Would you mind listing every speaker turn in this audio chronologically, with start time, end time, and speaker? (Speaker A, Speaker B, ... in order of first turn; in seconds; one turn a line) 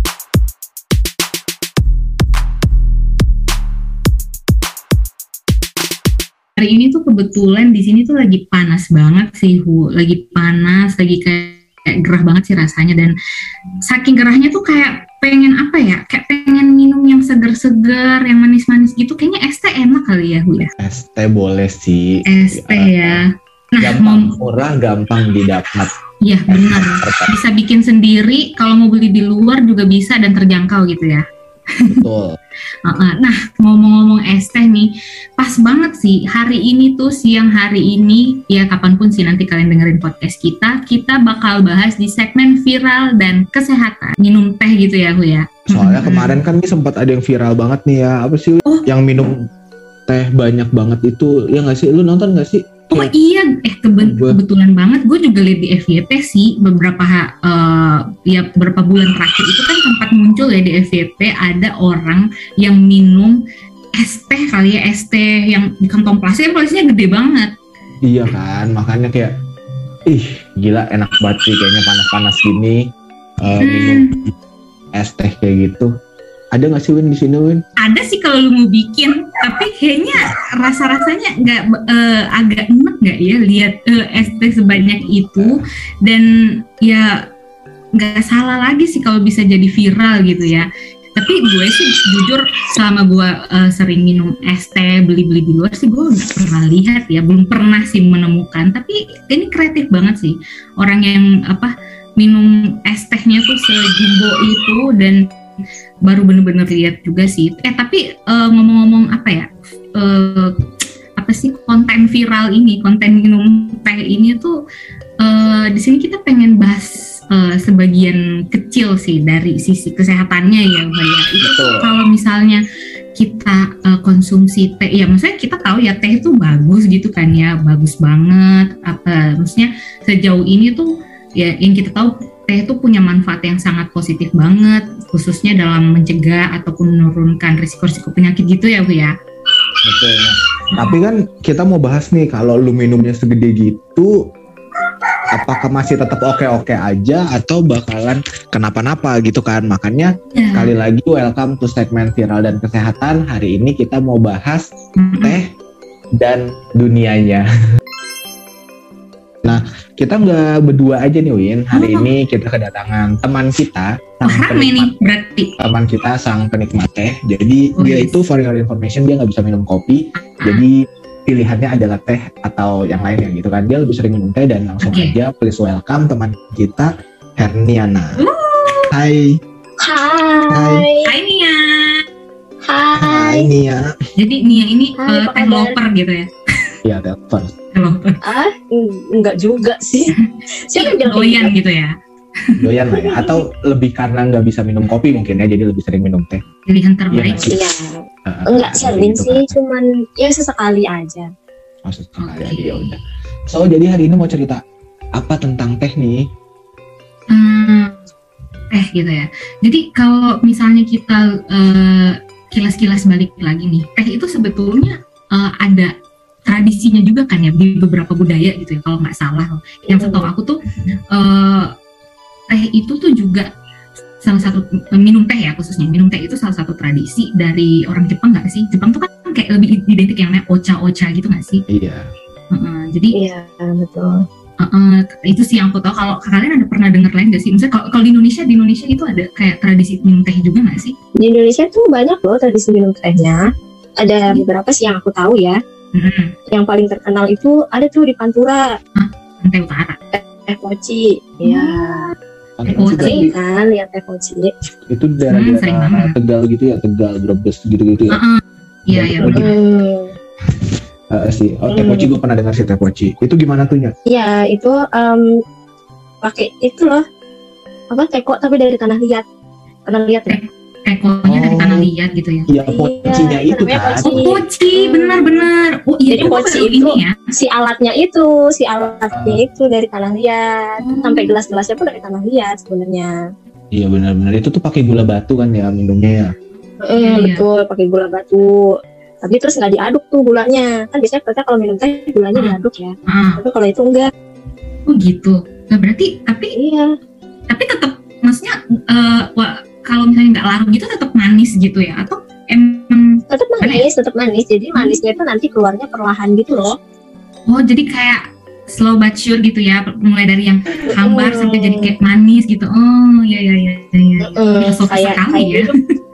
Speaker A: 6.6-13.1
Speaker A: 13.9-20.7
Speaker B: 20.8-23.2
Speaker A: 22.3-24.3
Speaker B: 23.8-25.9
Speaker A: 26.2-31.3
Speaker B: 26.5-27.3
Speaker B: 31.9-32.4
Speaker A: 32.9-46.4
Speaker B: 45.7-49.4
Speaker B: 50.1-53.1
Speaker A: 52.9-63.4
Speaker B: 54.0-54.4
Speaker A: 64.0-67.5
Speaker B: 68.1-69.3
Speaker B: 70.1-72.8
Speaker B: 73.4-74.1
Speaker A: 73.6-74.2
Speaker B: 75.0-75.9
Speaker B: 76.5-77.6
Speaker A: 77.8-86.3
Speaker B: 84.7-85.6
Speaker A: 86.8-87.2
Speaker A: 88.0-105.2
Speaker A: 106.0-110.5
Speaker A: 111.2-114.6
Speaker A: 115.2-122.6
Speaker B: 121.4-121.9
Speaker A: 123.2-139.1
Speaker B: 139.8-144.2
Speaker B: 145.3-154.7
Speaker A: 150.3-150.7
Speaker A: 155.0-155.4
Speaker B: 155.2-155.5
Speaker B: 156.2-157.5
Speaker B: 159.4-164.9
Speaker A: 161.7-162.1
Speaker A: 164.2-165.5
Speaker B: 165.6-170.8
Speaker A: 167.8-168.2
Speaker B: 171.3-178.2
Speaker A: 174.8-175.1
Speaker A: 178.2-178.9
Speaker B: 178.9-179.4
Speaker C: 179.8-181.1
Speaker B: 180.5-180.8
Speaker A: 181.1-182.0
Speaker C: 182.7-183.5
Speaker B: 182.9-183.9
Speaker A: 184.2-186.3
Speaker C: 185.0-185.8
Speaker B: 186.8-187.5
Speaker A: 187.7-188.2
Speaker C: 188.2-190.1
Speaker A: 190.1-192.6
Speaker C: 190.7-191.5
Speaker B: 192.6-196.4
Speaker C: 192.9-193.4
Speaker A: 196.7-197.5
Speaker B: 197.1-197.6
Speaker C: 197.4-201.3
Speaker B: 198.3-199.5
Speaker B: 201.8-202.9
Speaker A: 202.2-203.0
Speaker B: 203.5-204.6
Speaker B: 205.2-206.3
Speaker A: 207.3-208.0
Speaker A: 208.7-215.9
Speaker A: 216.5-220.6
Speaker C: 219.9-220.3
Speaker A: 221.1-221.7
Speaker A: 222.5-223.5
Speaker A: 224.2-231.6
Speaker B: 231.7-232.1
Speaker A: 232.5-233.2
Speaker C: 233.1-234.2
Speaker A: 234.6-241.0
Speaker C: 241.2-243.4
Speaker C: 244.0-245.6
Speaker A: 245.9-246.3
Speaker C: 246.5-248.7
Speaker A: 249.0-250.0
Speaker C: 250.1-252.1
Speaker A: 251.4-251.8
Speaker B: 252.6-253.3
Speaker A: 252.7-253.2
Speaker C: 252.8-254.5
Speaker B: 254.9-258.2
Speaker A: 255.3-256.1
Speaker A: 258.1-259.6
Speaker B: 258.9-259.5
Speaker C: 259.2-260.1
Speaker B: 260.4-263.9
Speaker C: 261.7-262.1
Speaker C: 264.1-265.3
Speaker C: 266.2-267.0
Speaker C: 267.9-269.2
Speaker C: 269.9-270.4
Speaker A: 270.3-272.5
Speaker B: 271.3-271.9
Speaker B: 272.5-274.2
Speaker C: 272.7-275.5
Speaker A: 274.1-277.2
Speaker C: 276.1-283.1
Speaker B: 279.1-279.4
Speaker A: 280.8-281.3
Speaker B: 283.7-286.3
Speaker C: 286.8-294.1
Speaker A: 287.0-287.4
Speaker A: 292.4-293.4
Speaker A: 294.9-296.5
Speaker C: 296.5-296.9
Speaker A: 297.5-303.9
Speaker C: 303.3-306.8
Speaker A: 307.5-315.8
Speaker C: 310.9-311.9
Speaker C: 314.2-315.7